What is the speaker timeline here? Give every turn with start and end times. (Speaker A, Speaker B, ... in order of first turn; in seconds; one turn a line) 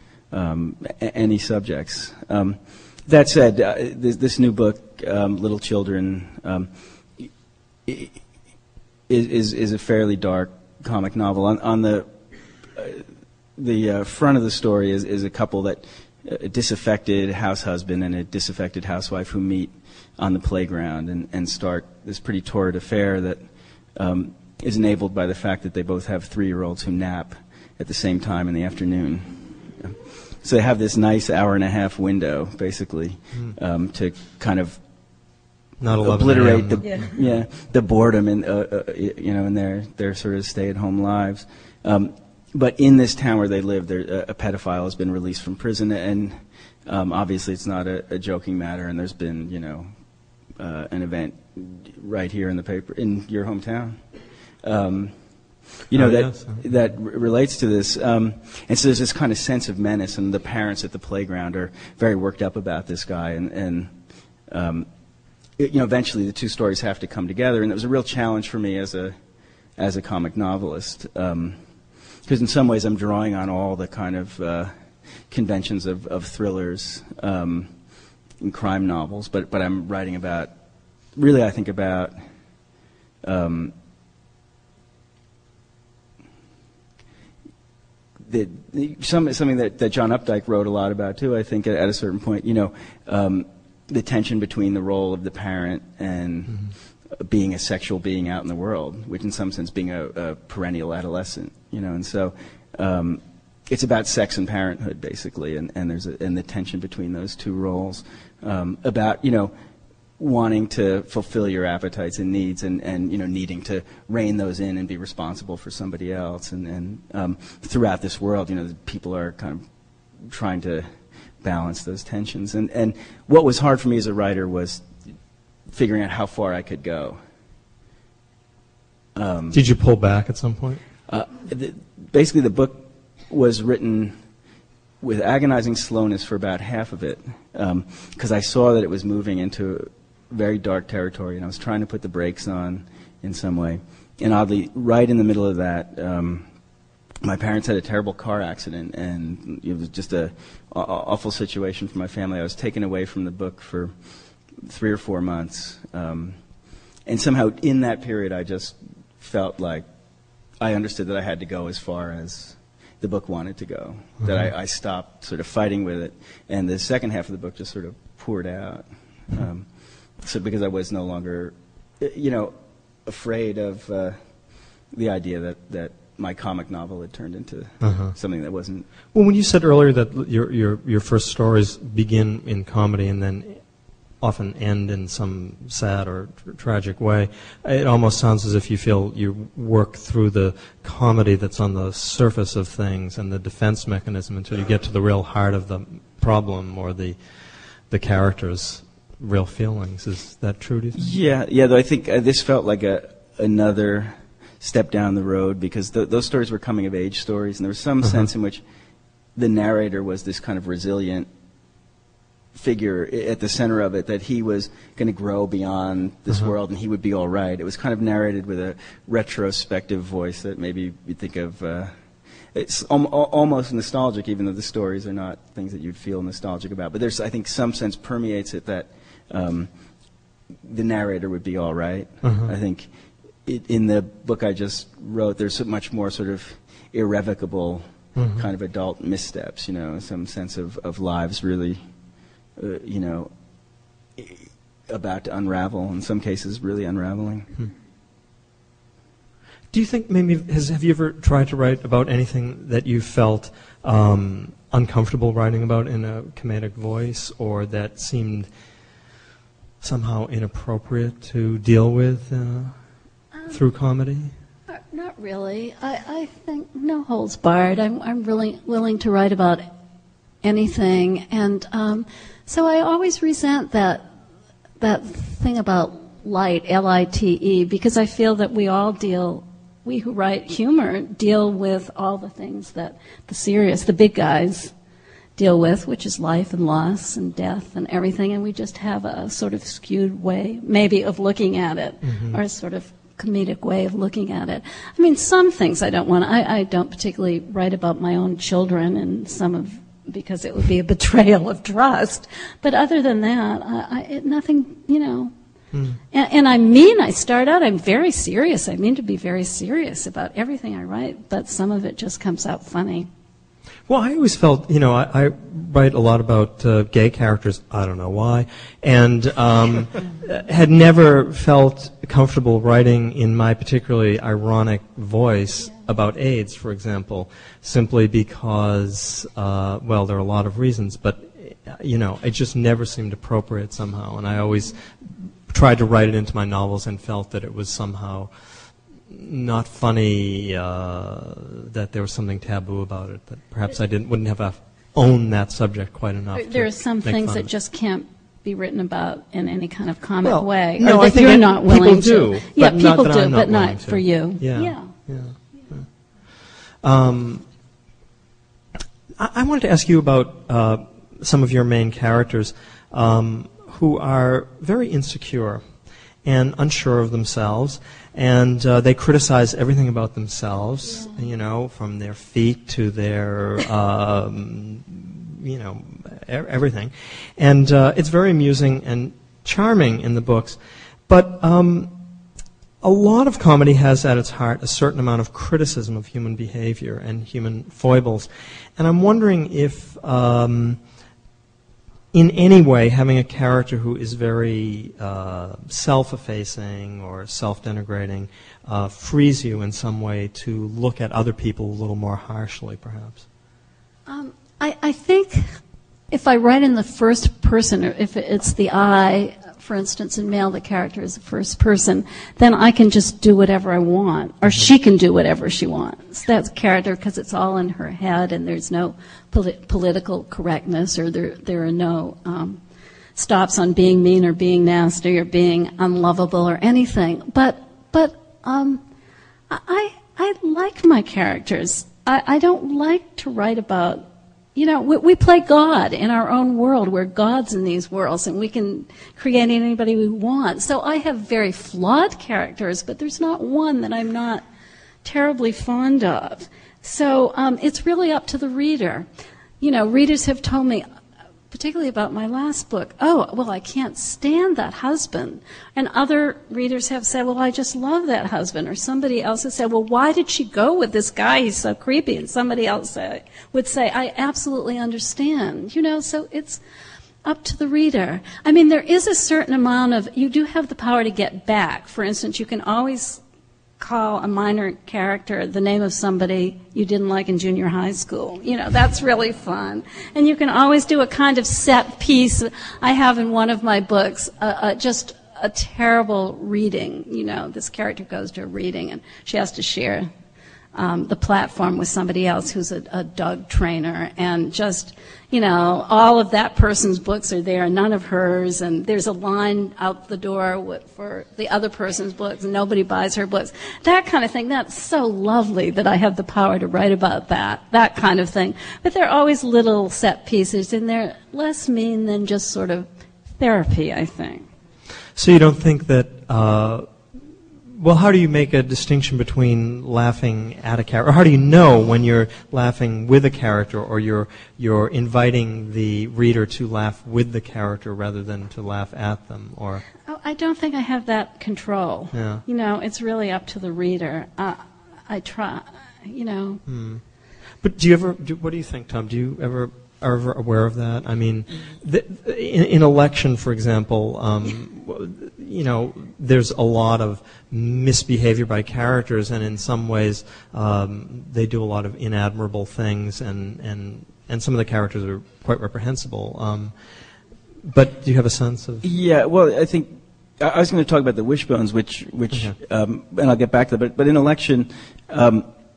Speaker A: 0.3-7.3
Speaker A: 7.9-8.2
Speaker A: 9.1-12.1
Speaker A: 12.8-13.0
Speaker A: 13.6-34.8
Speaker B: 35.8-37.3
Speaker A: 36.0-49.9
Speaker A: 50.6-54.0
Speaker A: 54.6-55.1
Speaker A: 55.9-63.9
Speaker B: 55.9-56.7
Speaker A: 64.5-64.9
Speaker A: 65.6-69.2
Speaker A: 69.8-71.6
Speaker A: 72.3-74.7
Speaker A: 75.3-77.7
Speaker A: 78.4-80.5
Speaker A: 81.1-82.2
Speaker A: 83.2-83.7
Speaker A: 88.3-109.5
Speaker A: 110.2-119.7
Speaker A: 120.2-120.9
Speaker A: 121.4-124.9
Speaker A: 125.7-127.2
Speaker A: 129.1-129.6
Speaker B: 129.5-130.8
Speaker A: 131.1-134.2
Speaker A: 135.0-146.5
Speaker A: 147.2-153.9
Speaker A: 154.6-156.4
Speaker A: 157.1-159.8
Speaker A: 160.6-169.7
Speaker B: 164.2-164.5
Speaker A: 170.2-174.2
Speaker A: 174.9-178.9
Speaker B: 177.8-178.1
Speaker B: 179.1-183.6
Speaker B: 184.2-197.2
Speaker B: 197.9-201.2
Speaker A: 201.0-208.6
Speaker B: 208.0-208.3
Speaker A: 209.3-211.3
Speaker A: 212.5-221.9
Speaker A: 222.5-229.7
Speaker A: 230.6-232.9
Speaker B: 232.2-232.5
Speaker A: 233.4-241.8
Speaker B: 238.2-238.5
Speaker A: 242.6-243.3
Speaker A: 244.2-247.5
Speaker B: 249.7-258.5
Speaker B: 259.8-262.7
Speaker B: 263.5-264.3
Speaker C: 264.7-269.6
Speaker C: 270.4-274.1
Speaker C: 274.8-284.7
Speaker C: 285.4-305.3
Speaker B: 292.0-292.4
Speaker B: 305.7-306.0
Speaker C: 306.1-313.1
Speaker B: 313.9-338.3
Speaker B: 339.1-347.5
Speaker C: 346.4-354.9
Speaker B: 350.2-355.9
Speaker B: 356.8-357.4
Speaker B: 359.2-365.6
Speaker B: 366.2-381.9
Speaker B: 382.8-390.8
Speaker B: 392.1-403.2
Speaker C: 404.1-405.6
Speaker C: 406.1-422.6
Speaker C: 423.2-428.8
Speaker C: 429.5-444.4
Speaker C: 445.0-449.1
Speaker C: 449.6-450.9
Speaker C: 451.5-466.6
Speaker C: 467.2-473.2
Speaker C: 473.8-490.1
Speaker C: 490.7-514.5
Speaker B: 515.2-516.9
Speaker B: 517.8-529.8
Speaker C: 530.0-536.6
Speaker B: 532.1-532.4
Speaker B: 536.7-537.0
Speaker B: 537.6-556.7
Speaker B: 557.6-558.9
Speaker A: 558.8-565.5